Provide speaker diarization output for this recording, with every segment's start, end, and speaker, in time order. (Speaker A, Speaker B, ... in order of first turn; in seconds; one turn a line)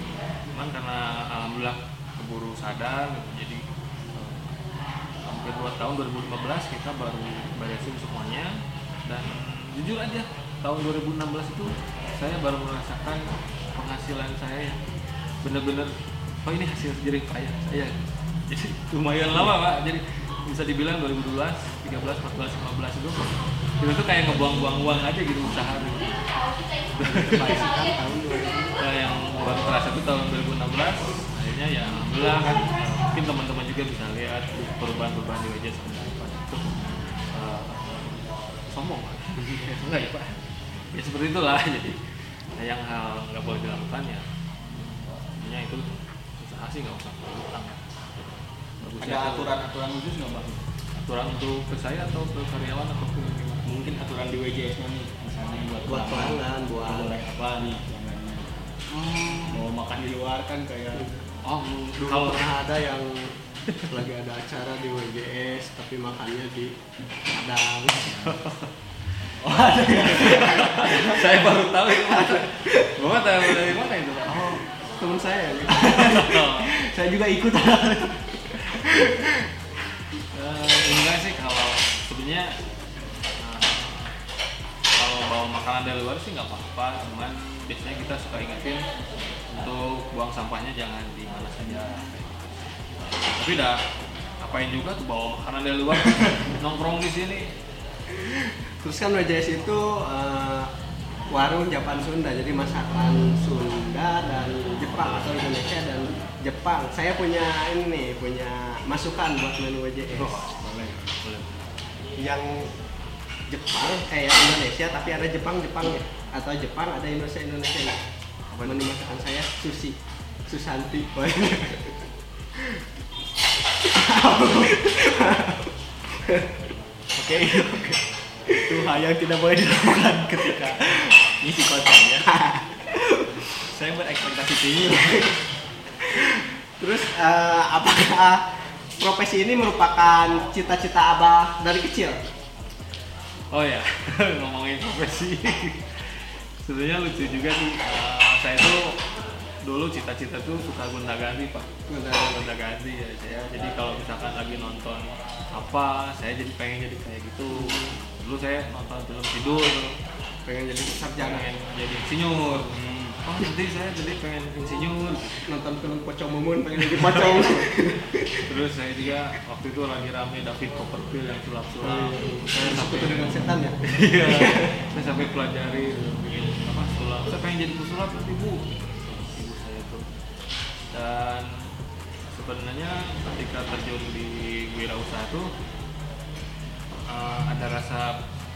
Speaker A: 0.5-3.6
Speaker A: 4.1-4.5
Speaker A: 5.2-14.8
Speaker A: 15.4-18.0
Speaker A: 18.5-26.2
Speaker A: 26.9-27.7
Speaker B: 27.0-28.7
Speaker A: 28.8-48.0
Speaker A: 48.8-49.5
Speaker C: 49.0-50.6
Speaker A: 51.0-53.6
Speaker C: 53.6-61.1
Speaker B: 55.9-57.1
Speaker B: 60.9-61.2
Speaker A: 61.4-62.5
Speaker B: 62.0-66.7
Speaker B: 67.3-68.3
Speaker A: 68.1-68.7
Speaker C: 69.4-71.3
Speaker B: 70.0-72.5
Speaker A: 70.0-74.6
Speaker B: 74.3-76.4
Speaker C: 75.7-78.5
Speaker A: 76.0-76.7
Speaker B: 78.6-79.3
Speaker A: 80.3-82.6
Speaker A: 83.4-84.1
Speaker A: 84.9-88.8
Speaker A: 89.5-92.7
Speaker A: 93.2-93.8
Speaker A: 94.4-97.5
Speaker B: 98.1-100.7
Speaker B: 101.3-110.4
Speaker A: 110.1-111.8
Speaker B: 112.2-112.7
Speaker B: 113.5-118.0
Speaker A: 118.5-118.9
Speaker B: 118.6-122.0
Speaker B: 123.8-125.7
Speaker C: 127.2-128.0
Speaker B: 128.5-130.8
Speaker C: 128.6-132.3
Speaker B: 132.2-133.4
Speaker C: 133.6-135.3
Speaker B: 136.1-138.4
Speaker B: 139.0-142.2
Speaker A: 143.5-149.0
Speaker A: 149.6-159.9
Speaker B: 151.9-152.5
Speaker B: 157.5-158.0
Speaker B: 160.4-161.4
Speaker A: 161.0-165.4
Speaker C: 162.7-163.2
Speaker B: 165.4-168.5
Speaker A: 167.0-167.5
Speaker A: 168.4-180.0
Speaker B: 171.8-174.8
Speaker A: 180.9-181.7
Speaker A: 182.3-185.5
Speaker A: 187.1-188.2